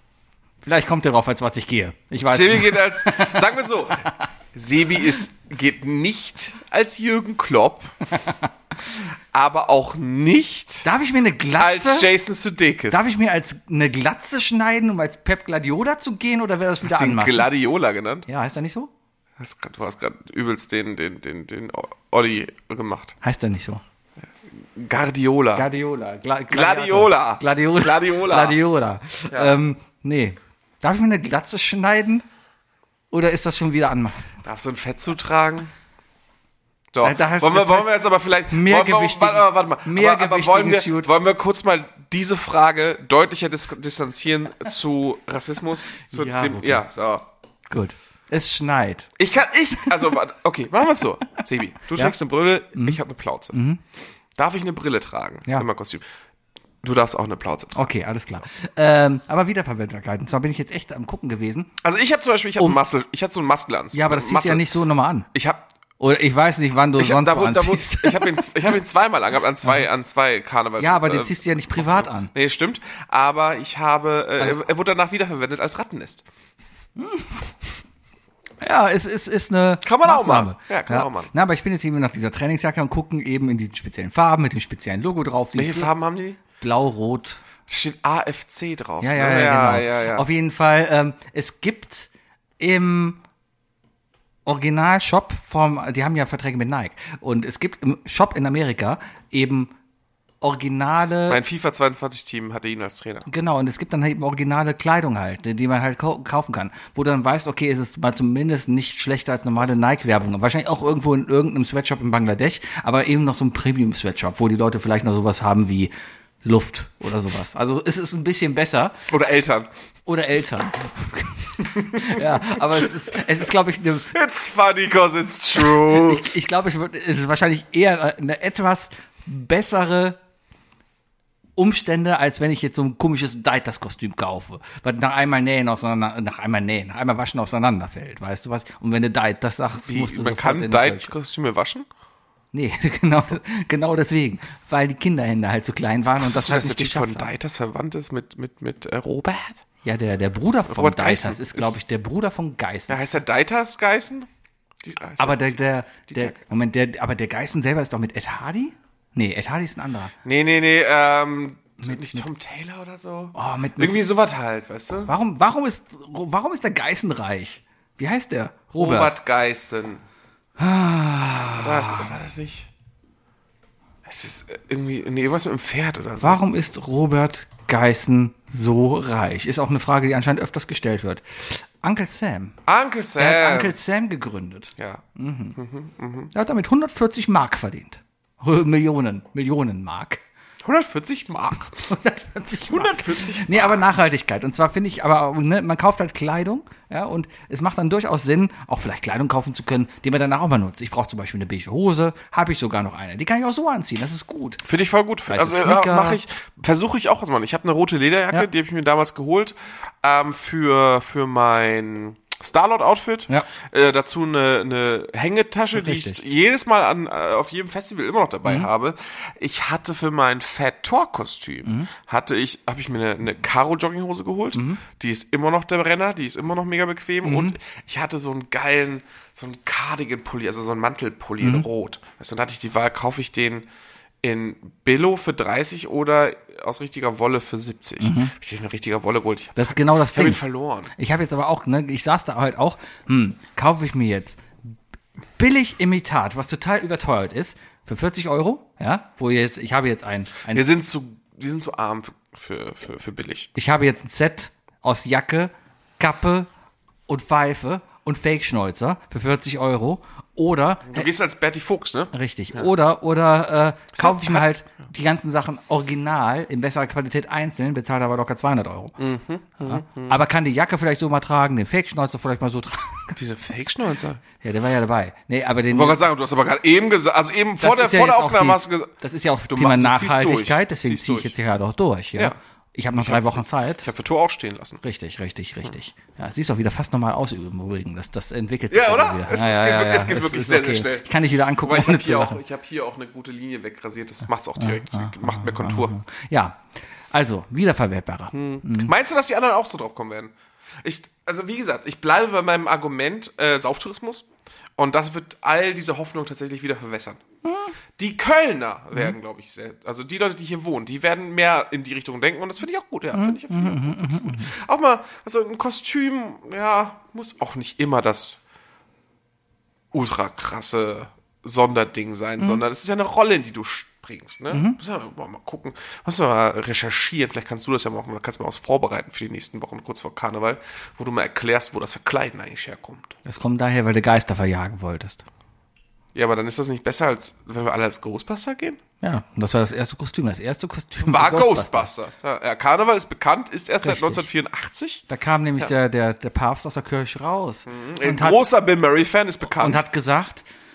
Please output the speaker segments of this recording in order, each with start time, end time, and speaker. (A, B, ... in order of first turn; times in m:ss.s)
0:00.6-0:03.4 A
0:02.2-0:07.9 B
0:08.1-0:08.5 A
0:09.3-0:10.9 B
0:10.8-0:12.1 A
0:11.6-0:13.1 B
0:12.9-0:17.5 A
0:16.8-0:18.3 B
0:18.3-0:18.9 A
0:19.4-0:23.2 B
0:23.2-0:23.8 A
0:24.5-0:25.7 B
0:25.5-0:32.2 A
0:26.5-0:28.6 B
0:29.3-0:29.6 B
0:33.1-0:34.3 A
0:34.4-0:35.7 B
0:36.9-0:47.3 B
0:37.0-0:37.9 A
0:38.5-0:41.1 A
0:46.1-0:46.8 A
0:47.7-0:49.1 A
0:49.2-0:53.6 B
0:53.5-0:53.8 A
0:54.3-0:56.0 B
0:56.8-0:58.5 B
0:57.8-1:01.7 A
1:01.8-1:04.6 B
1:03.9-1:05.3 A
1:05.3-1:05.6 B
1:06.0-1:08.5 A
1:07.0-1:16.3 B
1:10.8-1:12.3 A
1:17.0-1:17.4 A
1:18.6-1:25.9 A
1:19.8-1:21.3 B
1:25.5-1:26.4 B
1:26.6-1:27.4 A
1:27.7-1:30.2 B
1:29.0-1:33.2 A
1:34.4-1:39.7 A
1:40.4-1:41.4 A
1:41.3-1:43.3 B
1:43.3-1:55.9 A
1:56.4-1:59.0 A
1:59.1-1:59.7 B
2:00.0-2:04.1 A
2:02.7-2:03.2 B
2:04.1-2:06.3 B
2:05.7-2:10.2 A
2:11.6-2:21.1 A
2:19.9-2:21.9 B
2:22.5-2:27.3 A
2:26.2-2:29.6 B
2:29.8-2:33.0 A
2:30.7-2:31.8 B
2:32.9-2:34.3 B
2:34.8-2:36.4 B
2:35.2-2:40.1 A
2:40.2-2:45.1 B
2:41.8-2:42.3 A
2:43.3-2:44.0 A
2:45.1-2:49.1 A
2:48.8-2:50.0 B
2:50.6-2:52.1 A
2:51.4-2:52.7 B
2:54.0-2:56.4 B
2:56.2-3:02.5 A
3:02.6-3:03.8 B
3:03.2-3:05.6 A
3:04.8-3:05.0 B
3:05.6-3:06.3 B
3:06.3-3:10.2 A
3:10.6-3:11.8 B
3:11.8-3:24.6 A
3:12.7-3:13.8 B
3:24.6-3:53.7 B
3:25.3-3:26.2 A
3:35.8-3:36.2 A
3:41.6-3:41.9 A
3:44.5-3:44.8 A
3:47.2-3:47.6 A
3:51.4-3:51.6 A
3:54.2-4:00.9 B
3:58.0-3:58.3 A
3:59.6-4:00.4 A
4:01.0-4:04.6 A
4:05.4-4:10.7 A
4:10.5-4:13.5 B
4:13.5-4:16.5 A
4:17.1-4:21.1 A
4:20.9-4:22.7 B
4:22.1-4:29.0 A
4:23.9-4:24.5 B
4:29.0-4:30.2 B
4:29.6-4:33.1 A
4:33.1-4:34.2 B
4:34.4-4:36.0 A
4:35.7-4:38.9 B
4:37.6-4:43.9 A
4:39.5-4:41.3 B
4:43.0-4:44.8 B
4:44.8-4:52.4 A
4:48.7-4:51.1 B
4:51.6-4:56.0 B
4:54.6-4:56.6 A
4:57.1-4:58.9 A
4:58.3-5:04.2 B
5:04.8-5:07.2 B
5:07.4-5:07.7 A
5:08.0-5:18.4 B
5:13.1-5:14.5 A
5:19.9-5:33.2 B
5:24.5-5:24.8 A
5:33.2-5:35.2 A
5:36.1-5:38.8 B
5:39.0-5:41.9 A
5:41.0-5:45.0 B
5:43.8-5:44.3 A
5:45.1-5:48.4 A
5:47.6-5:49.8 B
5:49.6-5:50.4 A